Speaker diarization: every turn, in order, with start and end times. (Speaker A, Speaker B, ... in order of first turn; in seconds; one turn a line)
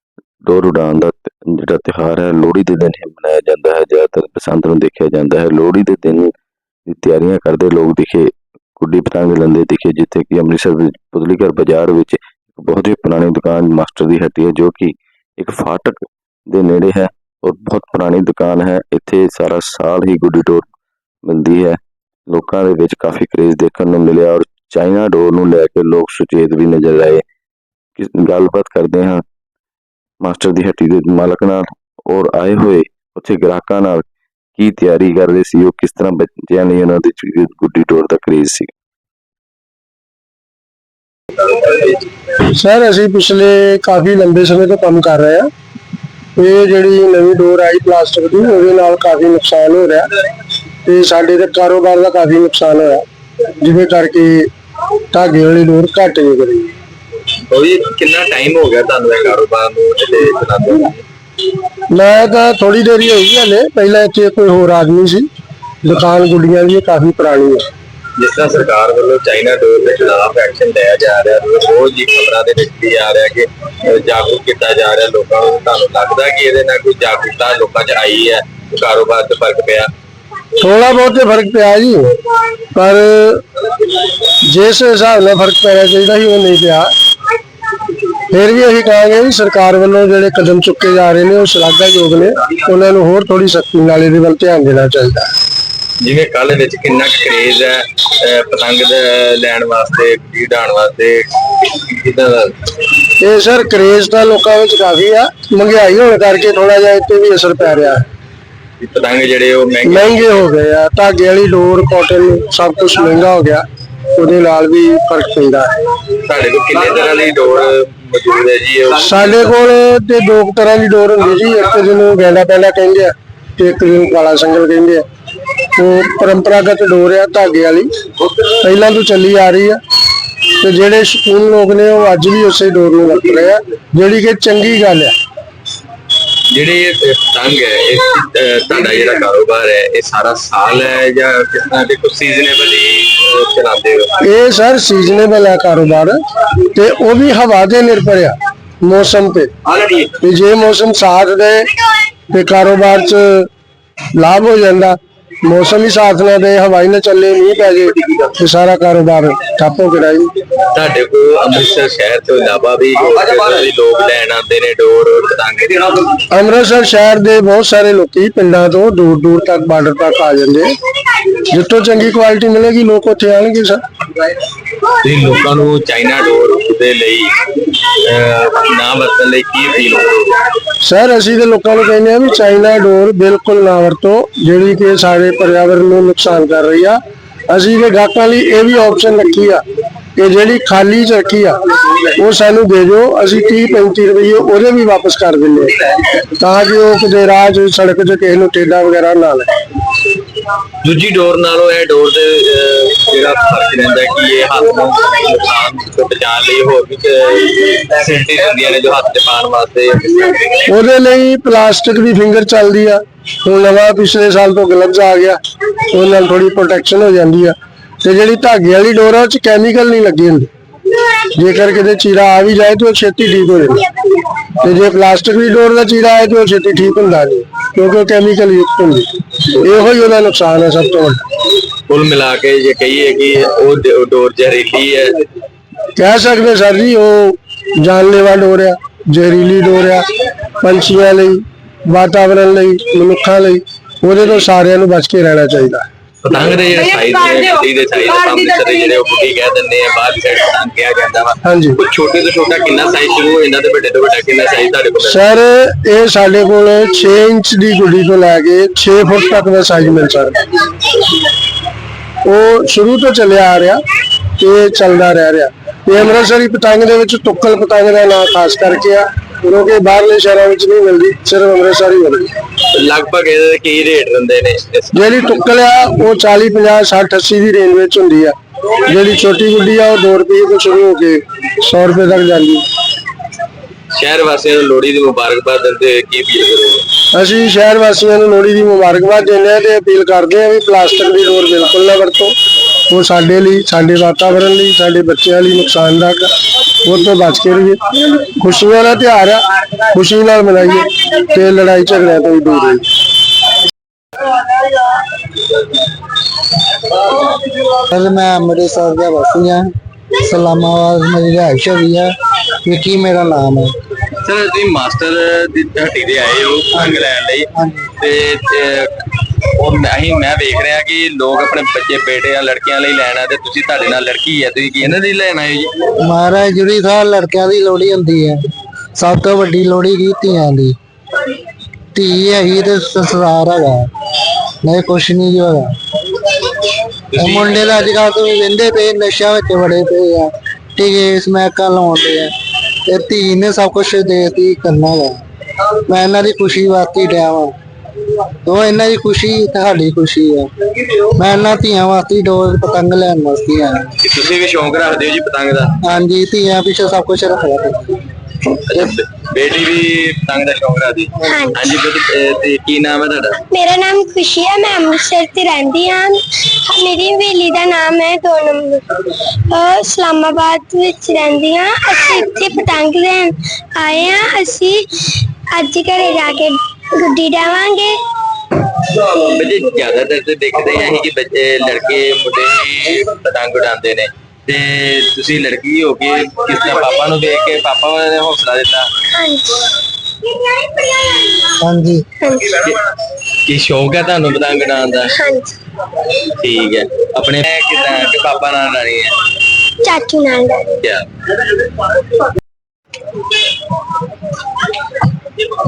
Speaker A: 0.4-6.3
Speaker A: 6.9-20.6
Speaker A: 21.2-27.2
Speaker A: 28.0-29.2
Speaker A: 30.2-38.7
Speaker B: 41.3-42.0
Speaker C: 42.5-45.5
Speaker C: 46.4-50.1
Speaker C: 50.8-53.0
Speaker C: 53.6-54.5
Speaker C: 55.1-56.7
Speaker B: 57.5-61.0
Speaker C: 61.9-65.3
Speaker C: 65.8-67.6
Speaker B: 68.2-79.9
Speaker C: 80.6-82.2
Speaker C: 82.7-83.4
Speaker C: 84.4-86.9
Speaker C: 88.3-95.3
Speaker B: 96.0-102.5
Speaker C: 103.2-108.0
Speaker B: 108.8-110.2
Speaker C: 109.8-113.6
Speaker C: 114.2-115.7
Speaker B: 116.2-119.5
Speaker C: 119.0-125.0
Speaker C: 125.7-127.9
Speaker C: 128.6-129.8
Speaker C: 130.6-135.1
Speaker B: 136.5-144.1
Speaker C: 144.2-146.2
Speaker C: 146.7-149.5
Speaker B: 149.7-150.1
Speaker C: 150.2-151.7
Speaker C: 152.3-153.5
Speaker C: 154.1-160.3
Speaker B: 160.7-166.1
Speaker C: 166.3-170.7
Speaker C: 171.5-173.8
Speaker B: 175.0-177.3
Speaker B: 178.1-180.3
Speaker C: 180.8-189.6
Speaker C: 190.2-191.6
Speaker C: 192.1-195.7
Speaker C: 196.3-199.5
Speaker B: 200.8-210.5
Speaker C: 210.7-215.4
Speaker C: 215.9-220.5
Speaker C: 221.2-223.8
Speaker C: 224.6-229.1
Speaker C: 229.6-231.2
Speaker B: 231.9-235.1
Speaker C: 235.9-240.1
Speaker C: 240.6-245.8
Speaker B: 246.2-255.2
Speaker C: 251.4-251.8
Speaker C: 255.0-260.4
Speaker C: 262.2-263.8
Speaker C: 264.4-272.3
Speaker B: 272.7-275.1
Speaker C: 274.9-282.6
Speaker B: 283.9-286.8
Speaker C: 287.1-292.3
Speaker C: 292.9-296.3
Speaker C: 296.8-302.8
Speaker D: 307.9-309.7
Speaker D: 310.2-312.1
Speaker D: 312.6-313.7
Speaker B: 314.2-317.5
Speaker D: 317.6-317.9
Speaker B: 318.0-318.9
Speaker B: 319.6-325.7
Speaker D: 326.0-328.4
Speaker D: 329.0-330.8
Speaker D: 331.9-333.9
Speaker D: 334.6-335.7
Speaker B: 337.1-337.9
Speaker D: 337.1-342.3
Speaker D: 342.9-345.2
Speaker D: 345.9-347.5
Speaker D: 348.4-353.9
Speaker B: 354.0-355.7
Speaker D: 355.8-357.9
Speaker B: 358.7-363.4
Speaker E: 361.2-361.7
Speaker E: 363.5-374.8
Speaker E: 375.5-377.9
Speaker B: 379.0-388.9
Speaker E: 389.1-389.7
Speaker E: 390.8-391.3
Speaker D: 391.6-392.0
Speaker E: 392.2-392.5
Speaker B: 393.4-395.1
Speaker E: 395.1-395.6
Speaker B: 396.4-399.1
Speaker E: 399.8-400.8